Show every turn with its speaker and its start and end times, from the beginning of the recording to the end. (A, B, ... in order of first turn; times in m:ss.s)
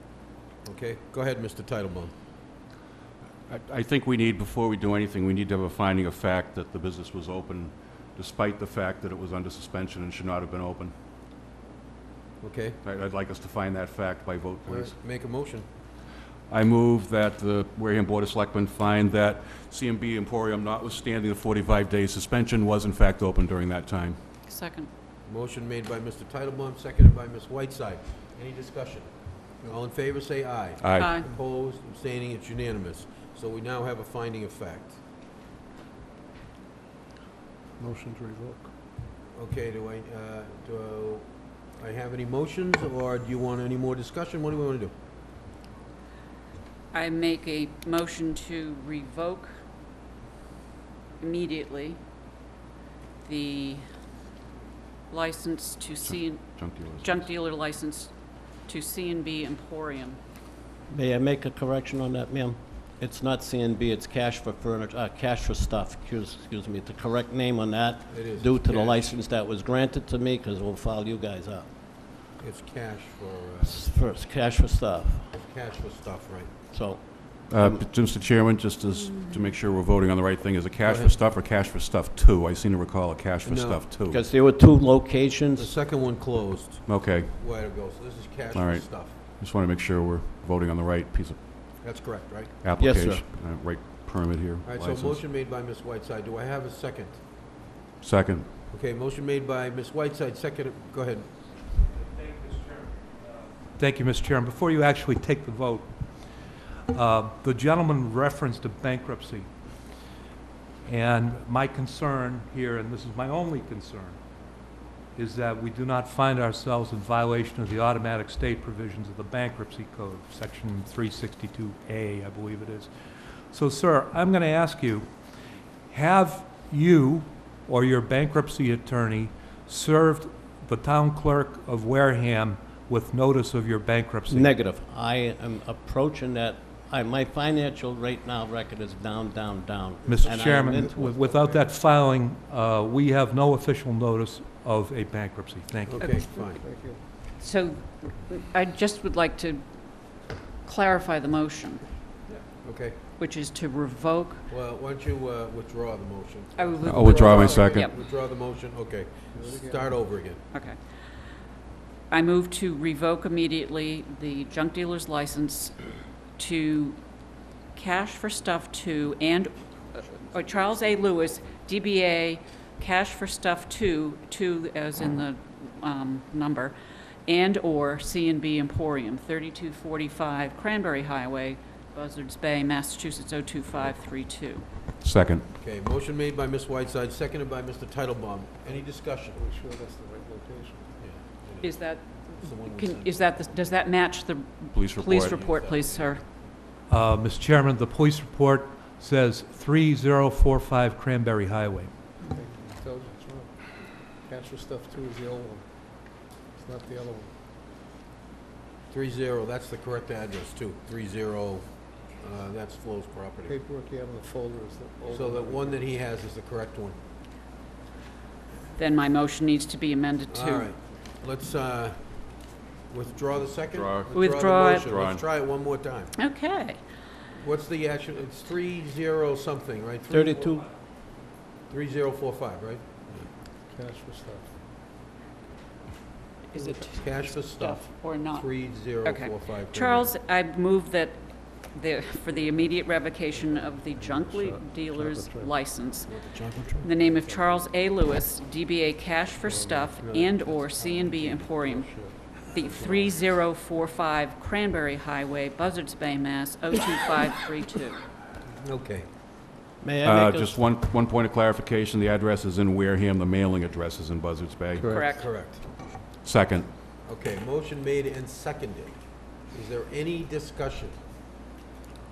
0:00.6-0:02.1 A
0:03.5-0:10.9 B
0:12.4-0:12.8 A
0:12.8-0:15.0 B
0:14.7-0:15.6 A
0:16.5-0:24.2 B
0:24.4-0:24.9 C
0:25.3-0:35.0 A
0:30.8-0:31.2 B
0:31.0-0:31.3 C
0:37.8-0:38.7 D
0:39.3-0:44.9 A
0:46.9-0:49.5 C
0:51.2-0:52.0 C
0:53.2-0:53.8 C
0:55.1-0:58.1 C
0:56.0-0:57.3 B
0:58.6-1:00.2 C
1:00.9-1:11.7 E
1:08.1-1:09.2 A
1:12.4-1:13.9 A
1:13.6-1:15.3 E
1:15.3-1:16.5 A
1:16.7-1:17.8 E
1:17.5-1:24.2 B
1:18.9-1:19.5 C
1:20.8-1:21.2 A
1:23.4-1:23.8 A
1:24.1-1:25.7 E
1:25.6-1:29.2 A
1:26.8-1:27.4 B
1:28.5-1:31.4 B
1:31.8-1:32.5 A
1:32.6-1:35.2 B
1:32.8-1:33.2 E
1:34.7-1:37.2 A
1:38.0-1:38.5 B
1:38.7-1:41.3 A
1:41.8-1:45.9 F
1:46.9-1:49.4 F
1:50.8-1:54.2 F
1:55.1-2:02.9 F
2:03.5-2:05.0 F
2:05.9-2:14.5 F
2:14.3-2:21.2 E
2:20.0-2:21.7 D
2:20.1-2:26.1 F
2:25.8-2:26.6 A
2:26.0-2:26.4 C
2:26.6-2:27.0 D
2:27.4-2:29.6 C
2:30.6-2:31.8 C
2:32.6-2:33.0 A
2:33.2-2:34.4 C
2:34.5-2:40.4 A
2:36.6-2:37.9 C
2:36.8-2:37.9 B
2:39.3-2:40.1 D
2:40.5-2:40.8 C
2:42.1-2:45.8 C
2:46.4-2:47.0 C
2:47.8-2:56.8 C
2:57.3-3:04.7 C
3:05.0-3:05.4 B
3:05.6-3:09.4 A
3:08.7-3:11.0 D
3:11.0-3:13.8 A
3:11.6-3:16.2 C
3:14.7-3:15.4 B
3:15.0-3:16.3 A
3:16.9-3:21.9 F
3:22.2-3:27.3 D
3:28.9-3:33.6 A
3:33.4-3:35.9 D
3:35.1-3:37.0 A
3:38.8-3:40.7 C
3:40.3-3:42.2 A
3:42.9-3:46.1 A
3:43.7-3:44.1 B
3:44.1-3:44.9 C
3:44.8-3:45.2 B
3:46.2-3:46.8 C
3:47.4-3:50.6 A
3:50.1-3:50.7 E
3:51.7-3:53.2 A
3:53.7-3:54.5 D
3:56.5-4:06.2 C
3:56.6-3:56.9 D
3:56.9-4:00.2 A
4:02.3-4:02.7 D
4:03.3-4:05.6 D
4:06.0-4:06.9 A
4:06.7-4:18.0 C
4:07.0-4:07.4 D
4:09.4-4:13.2 D
4:18.6-4:19.1 A
4:19.8-4:20.6 E
4:20.0-4:24.9 B
4:24.8-4:25.3 C
4:24.9-4:25.6 A
4:26.2-4:26.7 B
4:27.0-4:29.0 A
4:29.5-4:31.0 A